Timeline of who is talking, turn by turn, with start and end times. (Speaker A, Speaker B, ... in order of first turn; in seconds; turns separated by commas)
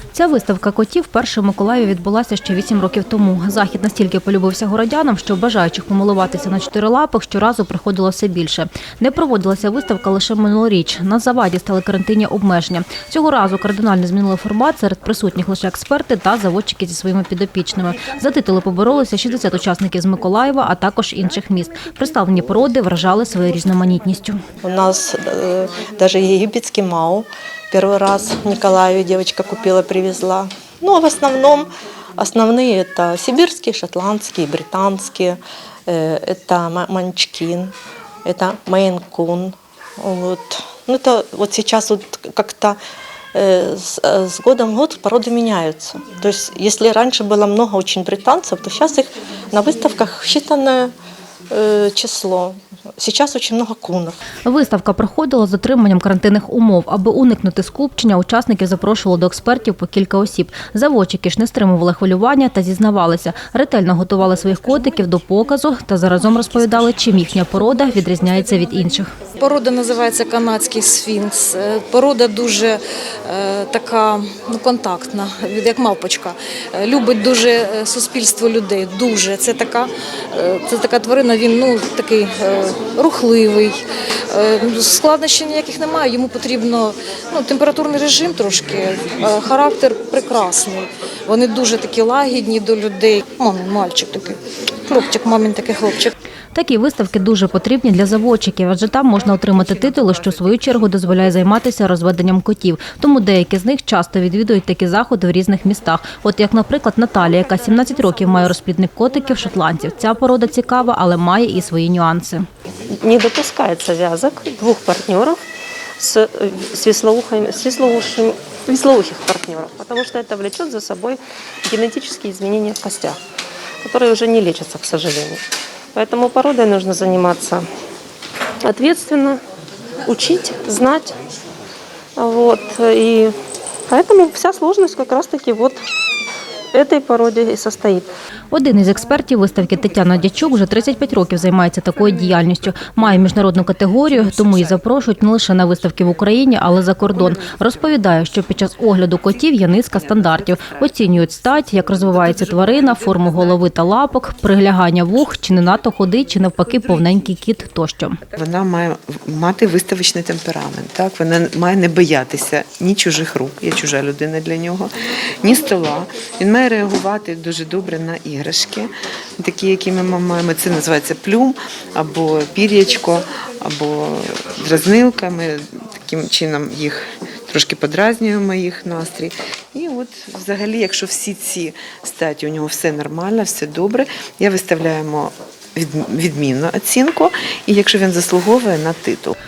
Speaker A: 0.1-24.4, Speaker B: 24.6-37.7, Speaker B: 38.2-42.8, Speaker B: 43.3-50.9, Speaker B: 51.5-54.2, Speaker A: 54.5-69.1, Speaker C: 69.4-96.1, Speaker A: 96.5-112.5, Speaker D: 112.9-115.4, Speaker D: 116.0-123.2, Speaker D: 123.8-125.4, Speaker D: 126.0-127.7, Speaker D: 128.6-129.4, Speaker D: 130.1-131.2, Speaker D: 132.2-133.3, Speaker D: 133.9-135.8, Speaker D: 136.7-138.1, Speaker A: 138.5-158.2, Speaker E: 158.4-164.9, Speaker E: 165.4-189.4